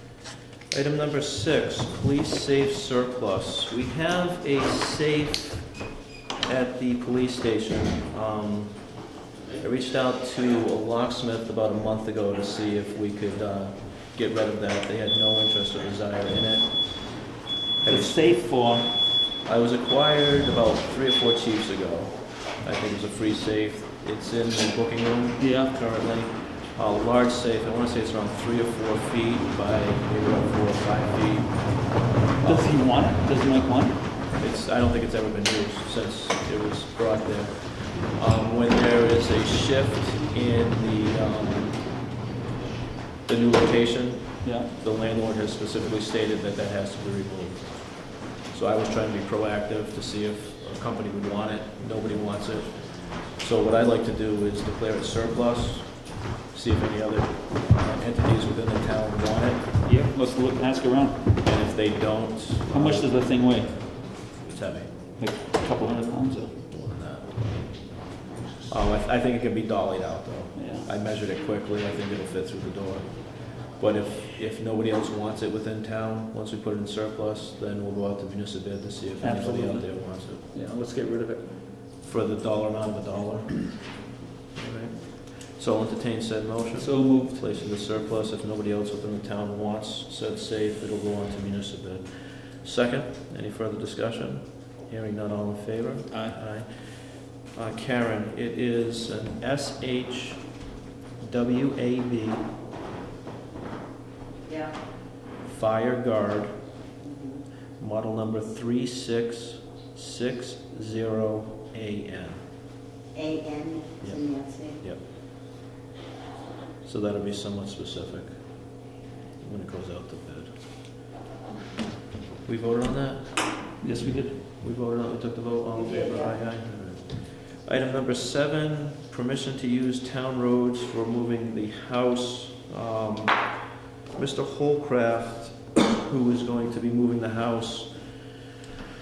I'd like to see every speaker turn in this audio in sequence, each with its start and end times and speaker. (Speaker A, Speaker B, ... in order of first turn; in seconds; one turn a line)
Speaker A: 0.7-5.8
Speaker A: 6.4-18.5
Speaker B: 17.9-18.9
Speaker A: 19.4-32.8
Speaker B: 25.4-25.7
Speaker B: 32.4-34.0
Speaker A: 34.4-41.9
Speaker A: 43.3-59.8
Speaker B: 44.4-44.7
Speaker B: 59.9-61.3
Speaker A: 61.4-64.9
Speaker B: 62.7-63.7
Speaker B: 65.2-66.5
Speaker A: 66.7-67.8
Speaker A: 68.7-80.4
Speaker B: 70.5-70.9
Speaker B: 79.2-81.5
Speaker A: 82.0-84.0
Speaker A: 84.5-100.6
Speaker B: 86.8-87.4
Speaker B: 96.1-96.4
Speaker A: 101.2-102.5
Speaker C: 104.5-104.8
Speaker A: 105.4-106.5
Speaker C: 107.0-107.4
Speaker A: 107.8-112.4
Speaker C: 113.1-114.8
Speaker A: 114.0-115.0
Speaker A: 116.8-118.8
Speaker A: 119.4-120.5
Speaker A: 122.5-138.5
Speaker B: 123.8-124.4